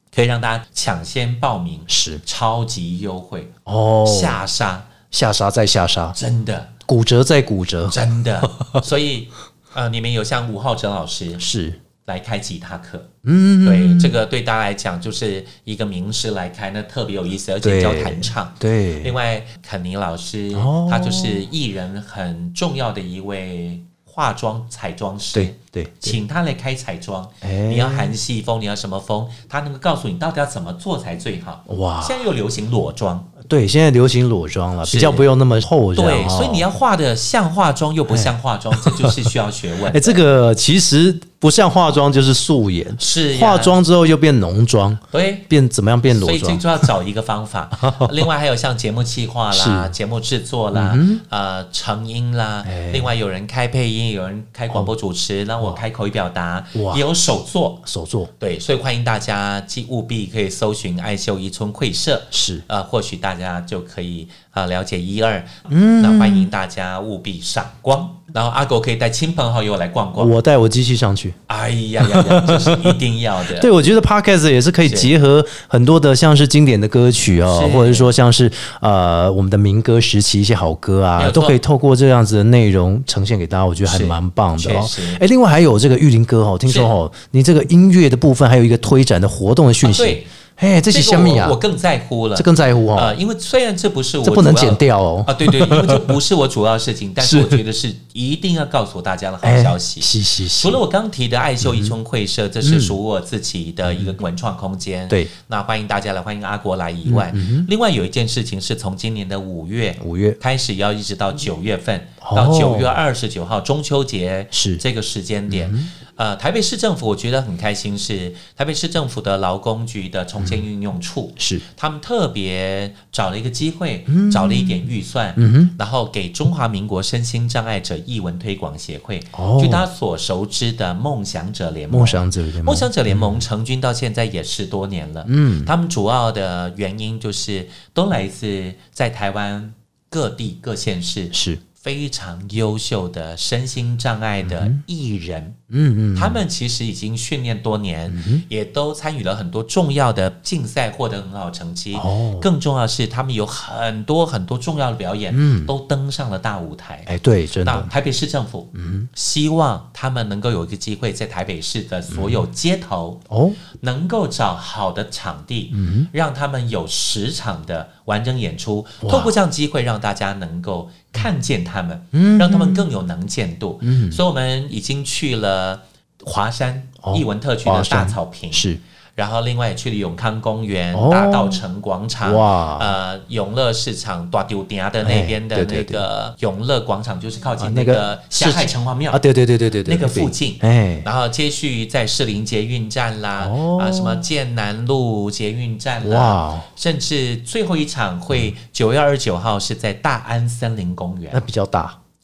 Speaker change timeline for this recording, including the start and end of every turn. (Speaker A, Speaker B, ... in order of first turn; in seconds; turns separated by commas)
Speaker A: 0.1-3.5, Speaker B: 1.9-2.2, Speaker B: 3.7-4.4, Speaker A: 4.0-4.9, Speaker B: 5.1-6.2, Speaker A: 6.2-6.7, Speaker B: 6.9-8.8, Speaker A: 7.9-11.4, Speaker B: 11.4-11.8, Speaker A: 12.1-13.1, Speaker B: 13.2-14.2, Speaker A: 13.6-33.3, Speaker B: 17.6-19.2, Speaker B: 20.5-21.5, Speaker B: 25.3-26.2, Speaker B: 27.4-28.1, Speaker B: 31.7-32.2, Speaker B: 33.4-36.7, Speaker A: 34.8-35.3, Speaker A: 36.0-40.2, Speaker B: 38.1-39.3, Speaker B: 39.9-46.9, Speaker A: 43.0-43.8, Speaker A: 45.1-45.5, Speaker A: 46.1-57.9, Speaker B: 47.8-48.3, Speaker B: 49.5-49.9, Speaker B: 50.7-51.2, Speaker B: 52.6-53.1, Speaker B: 56.7-57.0, Speaker B: 57.9-58.3, Speaker A: 58.4-70.3, Speaker B: 62.3-62.6, Speaker B: 65.7-66.5, Speaker B: 70.2-71.4, Speaker A: 71.5-73.7, Speaker B: 72.0-91.6, Speaker A: 74.8-75.1, Speaker A: 77.5-78.1, Speaker A: 81.2-81.6, Speaker A: 83.8-85.2, Speaker A: 86.7-86.9, Speaker A: 89.8-90.3, Speaker A: 90.9-145.6, Speaker B: 92.4-93.2, Speaker B: 94.2-96.1, Speaker B: 97.2-97.6, Speaker B: 99.4-100.8, Speaker B: 101.6-101.9, Speaker B: 102.6-103.0, Speaker B: 103.9-104.2, Speaker B: 107.1-107.7, Speaker B: 110.0-110.4, Speaker B: 112.2-113.0, Speaker B: 114.5-114.8, Speaker B: 115.5-115.9, Speaker B: 121.4-121.6, Speaker B: 124.1-125.7, Speaker B: 129.3-129.9, Speaker B: 131.9-133.4, Speaker B: 135.3-135.7, Speaker B: 141.3-141.6, Speaker B: 144.4-144.8, Speaker B: 145.7-146.4, Speaker A: 146.2-157.1, Speaker B: 148.1-148.4, Speaker B: 151.9-152.5, Speaker B: 155.3-155.7, Speaker B: 157.1-157.9, Speaker A: 157.6-163.2, Speaker B: 158.8-159.1, Speaker B: 162.1-162.4, Speaker B: 163.3-163.6, Speaker A: 163.8-178.7, Speaker B: 165.7-166.1, Speaker B: 169.0-169.4, Speaker B: 172.1-172.9, Speaker B: 173.8-174.2, Speaker B: 177.0-178.8, Speaker A: 179.2-189.2, Speaker B: 180.9-181.6, Speaker B: 182.2-182.9, Speaker B: 185.0-186.0, Speaker B: 187.6-191.1, Speaker A: 189.8-201.4, Speaker B: 193.4-194.3, Speaker B: 196.0-196.7, Speaker B: 201.3-202.0